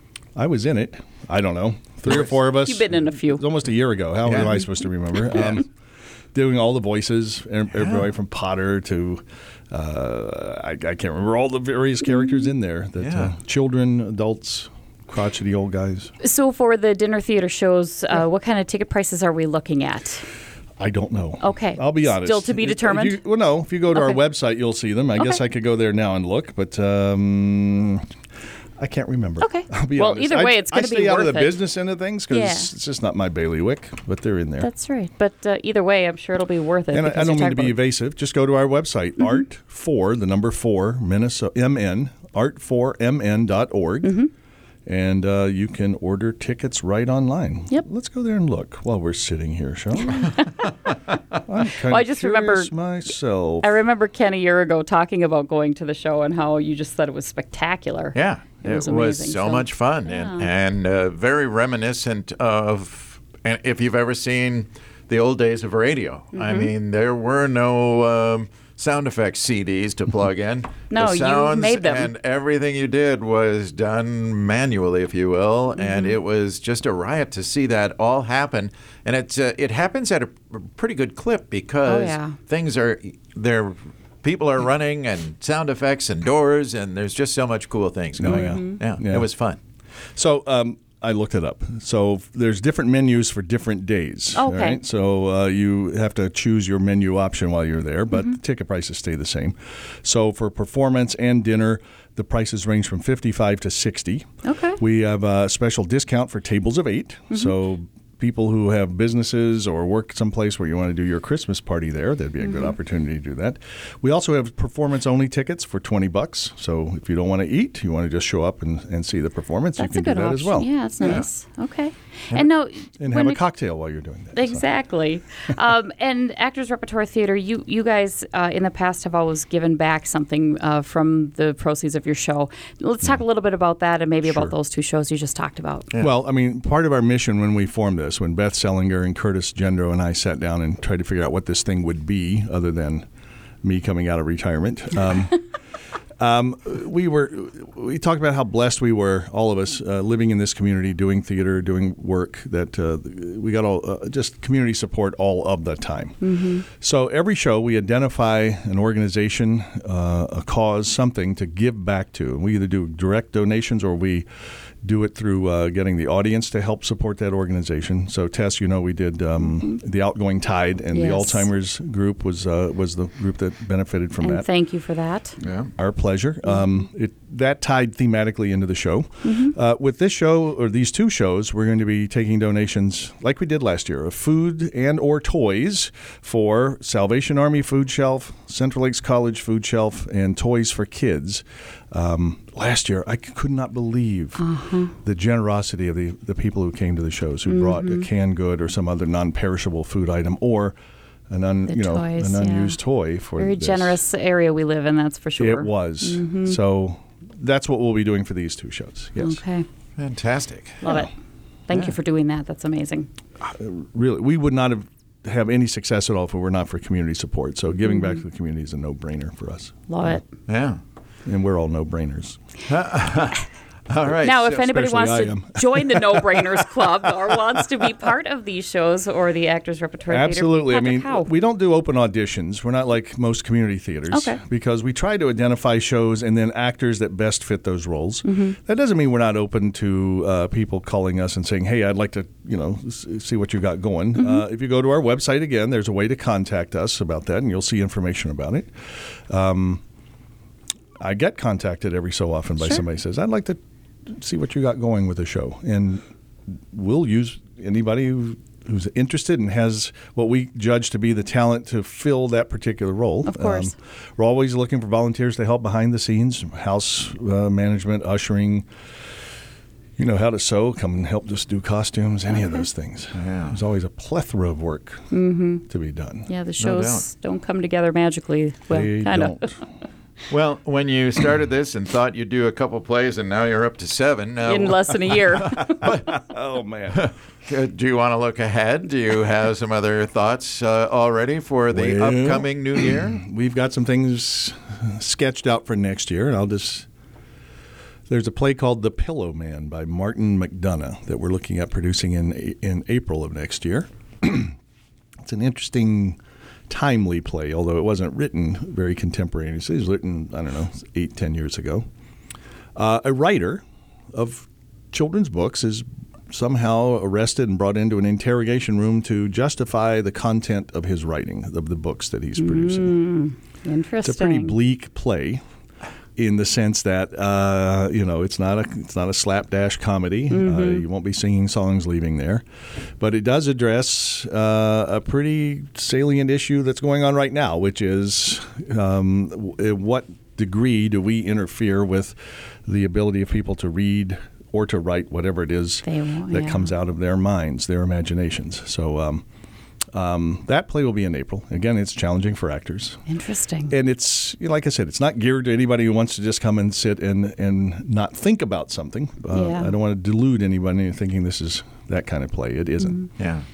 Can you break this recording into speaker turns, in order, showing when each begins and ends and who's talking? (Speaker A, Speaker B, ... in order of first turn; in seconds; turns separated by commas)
Speaker A: 0.3-5.7, Speaker B: 2.1-3.5, Speaker C: 4.2-4.5, Speaker C: 5.3-5.6, Speaker A: 6.3-16.1, Speaker C: 7.7-8.1, Speaker C: 13.0-13.3, Speaker B: 16.2-20.2, Speaker A: 20.8-28.1, Speaker B: 21.4-23.3, Speaker B: 23.9-24.2, Speaker A: 28.8-34.7, Speaker B: 29.4-31.7, Speaker B: 32.3-32.7, Speaker B: 34.6-37.8, Speaker A: 36.9-44.2, Speaker B: 44.0-44.3, Speaker A: 44.9-50.3, Speaker B: 50.1-50.6, Speaker A: 51.5-53.8, Speaker B: 51.8-52.7, Speaker B: 53.6-60.5, Speaker C: 58.1-89.6, Speaker B: 66.3-66.7, Speaker B: 70.9-72.1, Speaker B: 75.8-76.2, Speaker B: 81.8-82.4, Speaker A: 88.2-89.3, Speaker B: 88.2-88.8, Speaker A: 90.2-104.3, Speaker B: 94.3-94.8, Speaker B: 104.4-104.8, Speaker A: 104.8-121.2, Speaker B: 112.4-112.8, Speaker B: 119.8-123.4, Speaker A: 123.0-124.7, Speaker B: 124.3-135.9, Speaker A: 134.2-134.6, Speaker A: 136.0-143.1, Speaker A: 143.6-145.4, Speaker A: 146.2-156.2, Speaker B: 156.2-156.7, Speaker A: 156.7-164.3, Speaker A: 164.8-174.5, Speaker B: 170.9-171.5, Speaker B: 174.2-175.4, Speaker C: 175.4-175.7, Speaker A: 175.8-194.4, Speaker B: 179.2-179.6, Speaker B: 194.4-194.9, Speaker A: 195.0-200.8, Speaker B: 197.5-198.1, Speaker A: 201.3-204.0, Speaker B: 201.7-202.8, Speaker B: 203.4-206.6, Speaker A: 205.4-209.4, Speaker B: 209.2-209.7, Speaker C: 210.0-211.0, Speaker B: 210.8-211.1, Speaker B: 211.7-213.1, Speaker A: 213.4-219.8, Speaker B: 219.9-220.2, Speaker C: 220.5-220.8, Speaker A: 221.3-222.4, Speaker C: 222.7-224.5, Speaker A: 224.1-227.9, Speaker B: 224.2-231.3, Speaker A: 230.1-248.7, Speaker B: 234.1-234.4, Speaker B: 238.2-238.6, Speaker B: 244.2-244.4, Speaker A: 249.3-249.8, Speaker A: 251.0-256.0, Speaker A: 256.7-268.7, Speaker B: 263.2-263.7, Speaker A: 270.0-275.1, Speaker B: 272.4-272.6, Speaker C: 273.1-273.6, Speaker B: 275.1-275.6, Speaker A: 275.7-276.3, Speaker B: 276.3-279.6, Speaker C: 276.6-277.1, Speaker A: 278.7-279.6, Speaker C: 280.3-286.1, Speaker B: 284.4-285.9, Speaker A: 285.8-287.1, Speaker C: 286.9-293.2, Speaker A: 291.7-296.9, Speaker A: 298.1-304.6, Speaker A: 305.2-311.9, Speaker A: 312.8-323.0, Speaker B: 322.4-324.6, Speaker A: 324.0-325.4, Speaker A: 326.2-332.4, Speaker B: 330.3-330.9, Speaker A: 333.0-349.2, Speaker B: 345.8-346.7, Speaker A: 349.9-353.0, Speaker B: 353.1-353.7, Speaker A: 353.7-363.1, Speaker B: 359.3-359.8, Speaker C: 363.2-363.4